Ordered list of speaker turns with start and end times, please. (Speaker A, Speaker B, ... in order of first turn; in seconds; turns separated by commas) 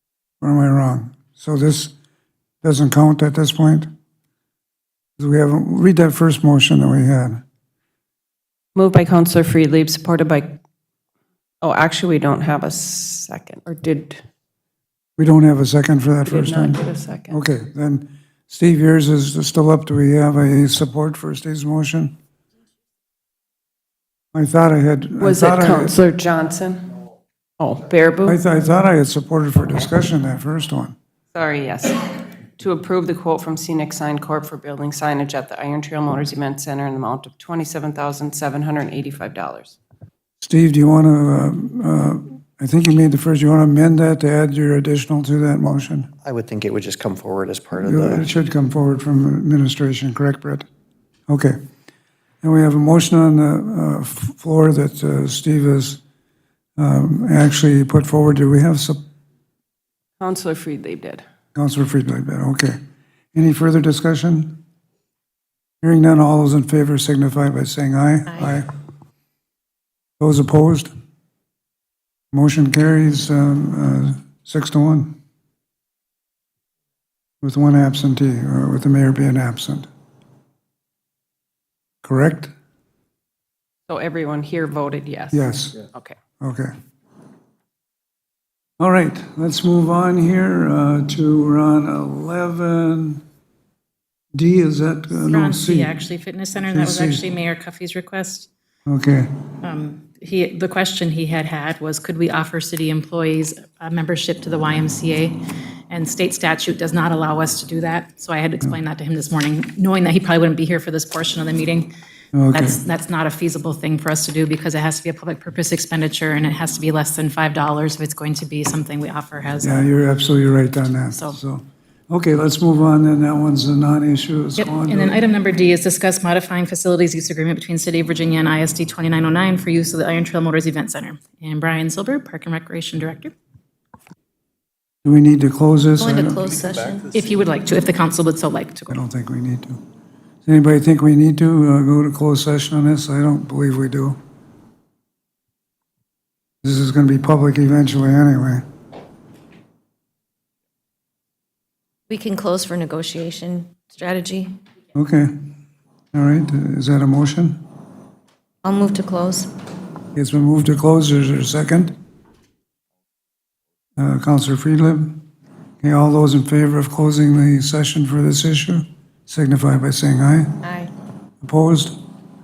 Speaker A: 0.4-1.9, Speaker A: 2.6-3.9, Speaker A: 5.2-7.4, Speaker B: 8.7-10.6, Speaker B: 11.6-14.2, Speaker A: 15.2-22.1, Speaker B: 16.2-17.4, Speaker A: 24.3-26.0, Speaker B: 25.2-27.0, Speaker B: 27.6-28.4, Speaker A: 28.2-30.9, Speaker B: 31.3-39.8, Speaker A: 40.4-46.1, Speaker C: 46.2-48.3, Speaker A: 47.8-50.6, Speaker A: 51.3-51.6, Speaker A: 52.4-56.0, Speaker A: 56.8-59.0, Speaker B: 60.2-61.2, Speaker A: 61.5-62.8, Speaker A: 63.3-64.6, Speaker A: 65.8-68.7, Speaker A: 70.2-70.9, Speaker A: 72.3-75.2, Speaker A: 77.4-79.9, Speaker A: 82.0-82.5, Speaker B: 83.9-86.2, Speaker A: 85.3-85.8, Speaker A: 86.4-86.7, Speaker A: 88.8-93.2, Speaker A: 94.3-96.0, Speaker D: 95.3-98.5, Speaker A: 96.6-97.2, Speaker A: 98.9-99.3, Speaker D: 99.6-111.9, Speaker A: 112.3-112.8, Speaker D: 112.5-119.9, Speaker A: 119.6-125.2, Speaker D: 124.6-133.3, Speaker A: 135.0-136.5, Speaker E: 136.0-137.1, Speaker D: 137.1-138.9, Speaker A: 138.9-139.8, Speaker A: 140.4-144.2, Speaker A: 146.6-148.6, Speaker E: 152.1-154.6, Speaker A: 154.9-155.3, Speaker A: 156.1-157.6, Speaker E: 158.6-159.5, Speaker A: 160.1-161.9, Speaker A: 164.0-165.2, Speaker A: 165.8-170.6, Speaker E: 170.6-170.9, Speaker A: 171.4-172.0